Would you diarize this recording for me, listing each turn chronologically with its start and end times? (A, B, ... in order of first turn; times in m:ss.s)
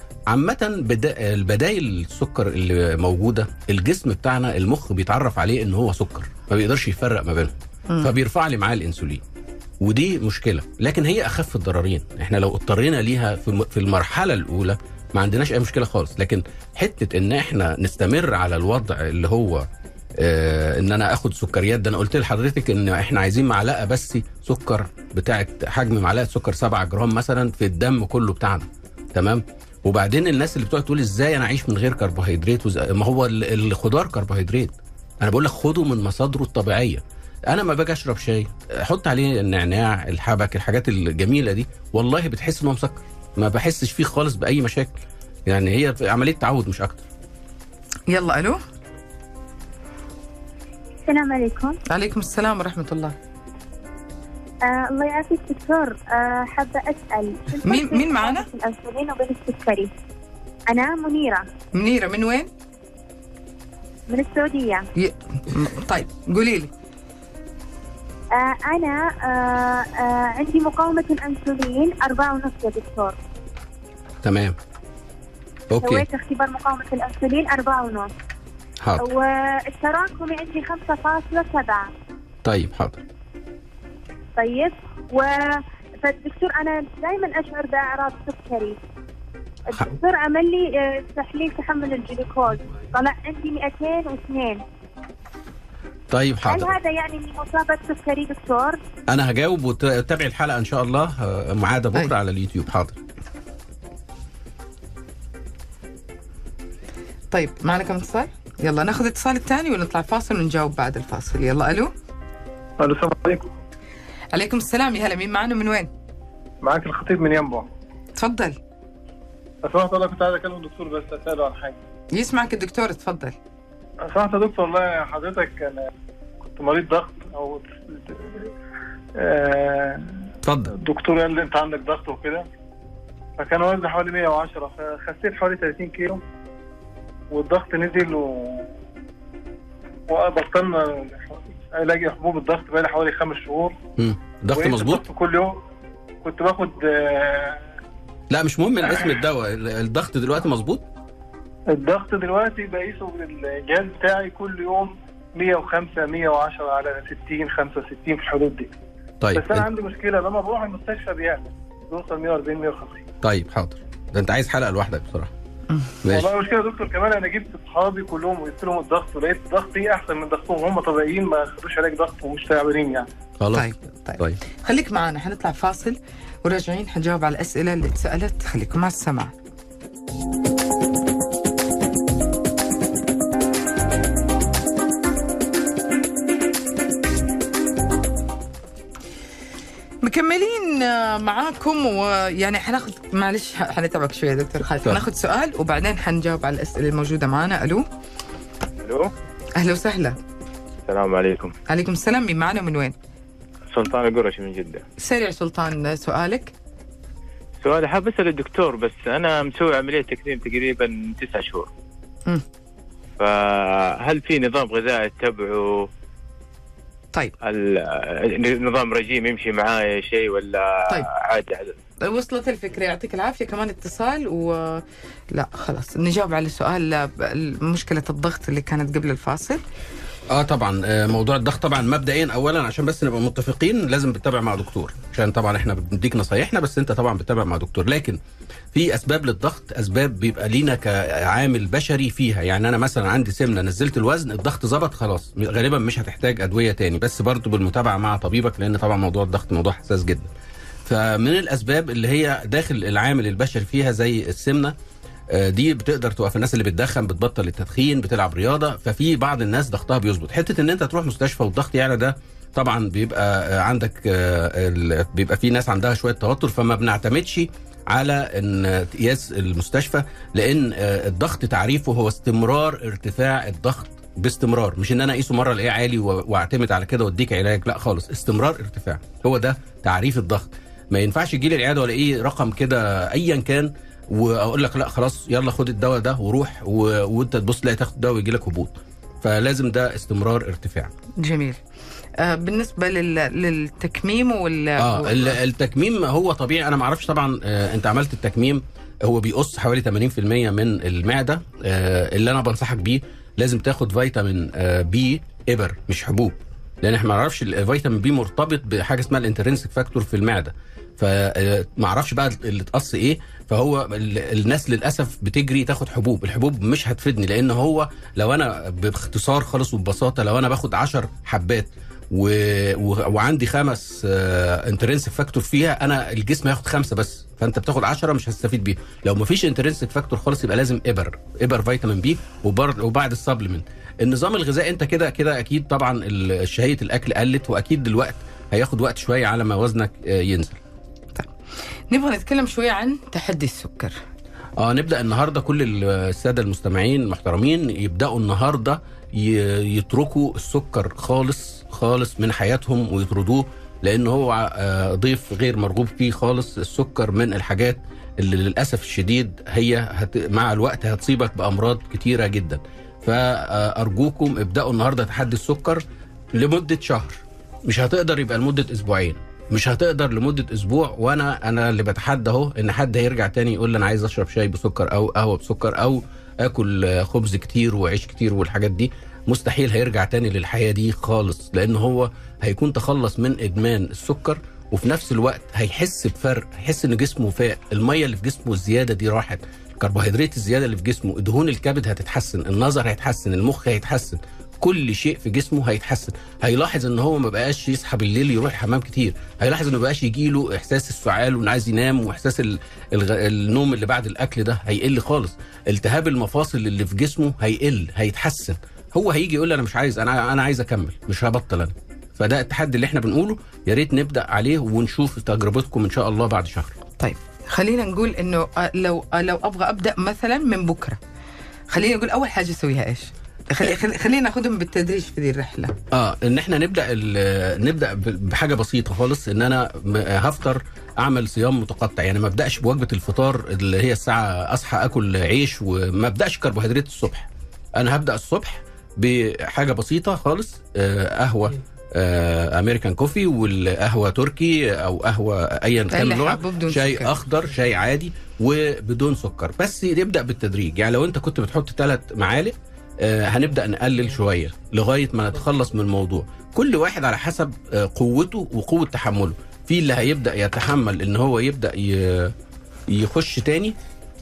0:00.3-0:09.2 A
0:09.8-0:19.7 A
0:20.2-0:44.9 A
0:45.5-0:47.0 A
0:48.1-0:48.6 B
0:51.1-0:51.8 C
0:51.9-0:53.2 B
0:54.6-0:59.9 C
0:57.7-0:58.5 B
1:00.7-1:01.4 C
1:01.8-1:02.5 B
1:04.1-1:04.9 C
1:05.0-1:06.7 B
1:08.3-1:13.2 C
1:14.2-1:14.6 A
1:15.7-1:16.1 A
1:15.8-1:18.1 C
1:19.0-1:21.9 C
1:22.4-1:23.0 A
1:24.4-1:28.8 C
1:29.7-1:34.6 C
1:36.1-1:36.8 A
1:36.4-1:38.8 C
1:39.1-1:43.0 A
1:47.3-1:51.9 B
1:52.8-1:53.5 D
1:54.3-1:55.9 B
1:56.6-1:57.7 D
1:58.2-1:58.6 B
1:59.6-2:01.8 D
2:02.1-2:03.4 B
2:04.0-2:05.9 D
2:06.6-2:08.5 D
2:09.2-2:10.2 D
2:10.4-2:10.7 A
2:10.7-2:12.5 D
2:13.4-2:16.2 D
2:17.3-2:18.7 D
2:20.1-2:23.8 D
2:24.0-2:25.0 A
2:24.5-2:25.6 D
2:26.2-2:27.6 D
2:28.3-2:30.9 A
2:31.7-2:38.7 D
2:39.2-2:39.7 A
2:39.3-2:43.0 D
2:43.2-2:45.3 A
2:45.7-2:46.0 B
2:46.1-2:53.1 D
2:53.4-2:54.4 A
2:53.5-2:59.3 B
3:10.0-3:17.8 B
3:18.8-3:19.1 E
3:19.6-3:20.2 B
3:20.9-3:21.5 E
3:21.7-3:23.0 B
3:23.7-3:24.8 E
3:25.0-3:26.5 B
3:27.6-3:31.7 E
3:33.2-3:35.9 E
3:37.4-3:41.8 E
3:42.0-3:49.6 B
3:50.3-3:58.2 A
3:58.7-4:10.3 A
4:10.8-4:14.8 A
4:15.3-4:50.9 A
4:51.2-4:51.6 B
4:52.2-4:55.4 B
4:54.8-5:40.6 A
5:41.9-5:44.0 B
5:44.6-6:05.8 A
6:06.4-6:56.7 A
6:57.0-7:01.0 B
7:01.7-7:05.7 B
7:05.9-7:42.3 A
7:25.9-7:27.1 B
7:42.9-7:43.8 A